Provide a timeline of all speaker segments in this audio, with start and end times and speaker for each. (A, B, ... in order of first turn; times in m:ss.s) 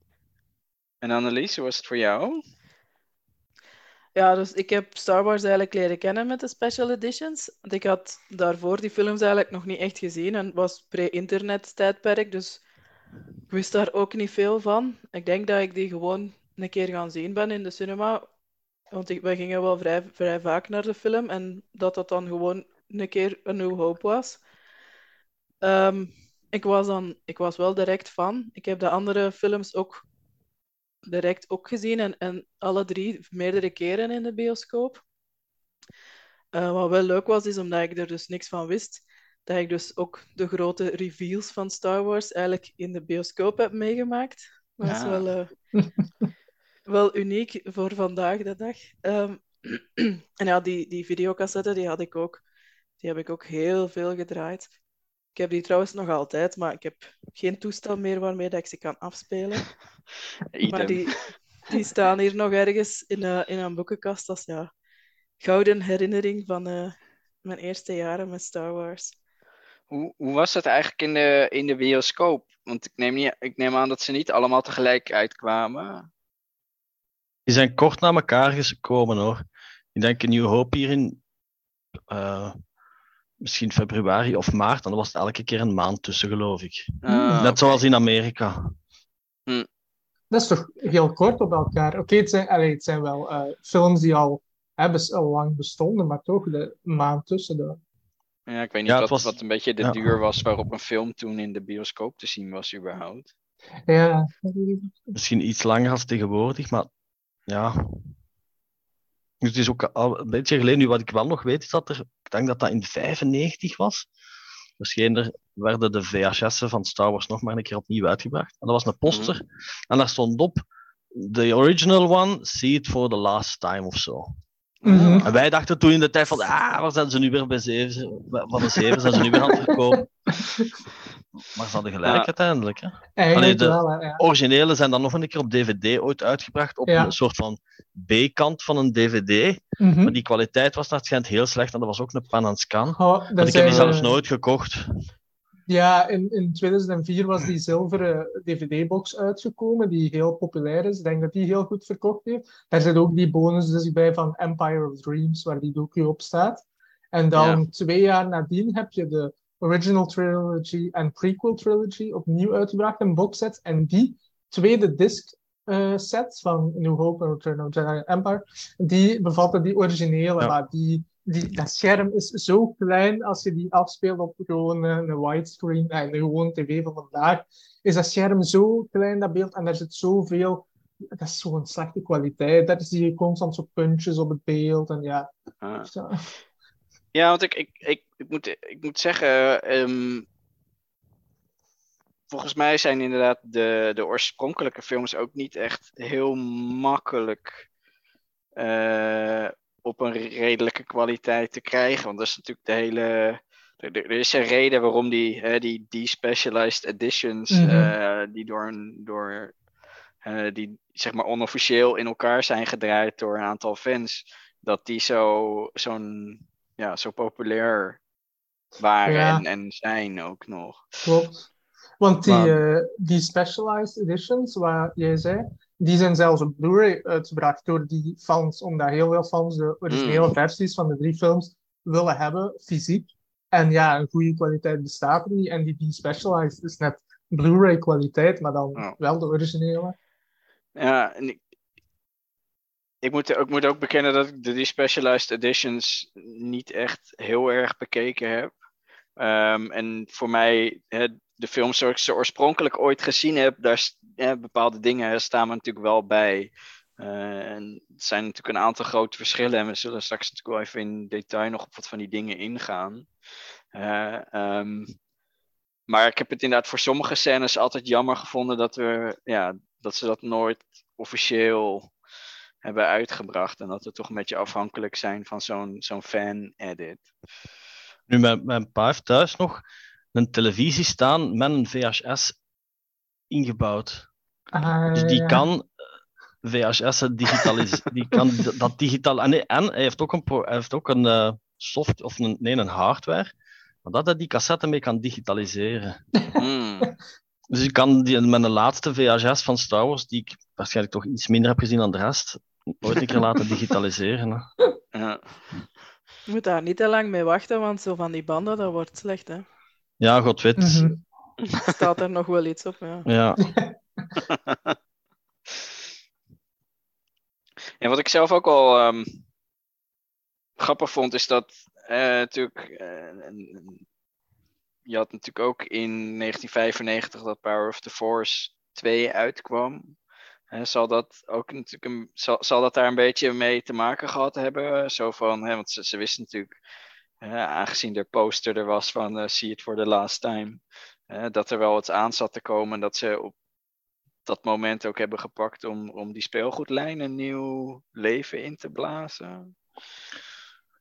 0:01.0-0:02.4 A
0:04.1-0:12.6 B
0:13.5-0:18.2 B
0:18.9-0:24.4 B
0:25.6-0:30.0 B
0:31.0-0:35.0 B
0:36.5-0:45.5 B
0:44.8-0:45.3 A
0:46.9-0:52.4 B
0:53.0-0:54.7 B
0:55.3-0:59.7 B
1:00.5-1:01.1 A
1:00.7-1:01.1 B
1:01.7-1:04.7 B
1:05.4-1:09.2 B
1:09.9-1:16.1 A
1:17.4-1:19.4 C
1:19.9-1:21.2 C
1:22.1-1:22.6 C
1:23.4-1:28.8 C
1:27.0-1:27.8 A
1:27.1-1:27.4 D
1:30.3-1:37.8 D
1:38.5-1:43.3 A
1:38.9-1:40.2 C
1:43.9-1:45.1 D
1:45.1-1:46.9 C
1:47.5-1:48.1 C
1:49.4-1:54.1 C
1:54.8-2:04.3 C
2:04.8-2:05.3 A
2:04.8-2:05.2 D
2:05.2-2:10.1 C
2:08.8-2:10.7 D
2:11.5-2:24.8 C
2:13.2-2:14.2 D
2:16.9-2:17.1 D
2:19.8-2:20.2 D
2:23.0-2:24.2 D
2:23.6-2:23.9 A
2:25.7-3:05.3 D
2:37.3-2:37.6 A
3:05.6-3:05.9 A
3:05.9-3:06.3 D
3:07.1-3:10.2 A
3:12.3-3:17.6 A
3:18.6-3:29.5 A
3:27.5-3:27.9 D
3:30.2-3:38.0 A
3:38.8-3:40.8 A
3:39.0-3:39.4 D
3:41.0-3:41.5 D
3:42.0-3:59.9 D
3:42.3-3:42.6 C
3:49.9-3:50.3 A
4:00.8-4:01.4 A
4:03.0-4:08.5 A
4:09.2-4:23.1 A
4:23.7-4:24.9 A
4:25.9-4:31.9 A
4:32.6-4:37.1 A
4:38.1-4:39.6 C
4:40.1-4:42.4 C
4:43.3-4:44.1 C
4:44.5-4:45.5 D
4:44.9-4:45.7 C
4:46.4-4:53.3 C
4:53.8-4:56.0 C
4:56.4-4:56.9 A
4:57.5-5:04.4 C
5:04.9-5:05.4 A
5:06.3-5:09.4 B
5:10.0-5:11.0 C
5:10.6-5:11.0 D
5:11.4-5:11.7 A
5:11.6-5:13.0 B
5:13.0-5:13.4 C
5:13.4-5:13.8 D
5:14.2-5:14.8 A
5:17.8-5:19.2 A
5:20.6-5:23.8 A
5:24.8-5:29.9 A
5:30.5-5:36.5 A
5:37.2-5:43.3 A
5:44.2-5:49.5 A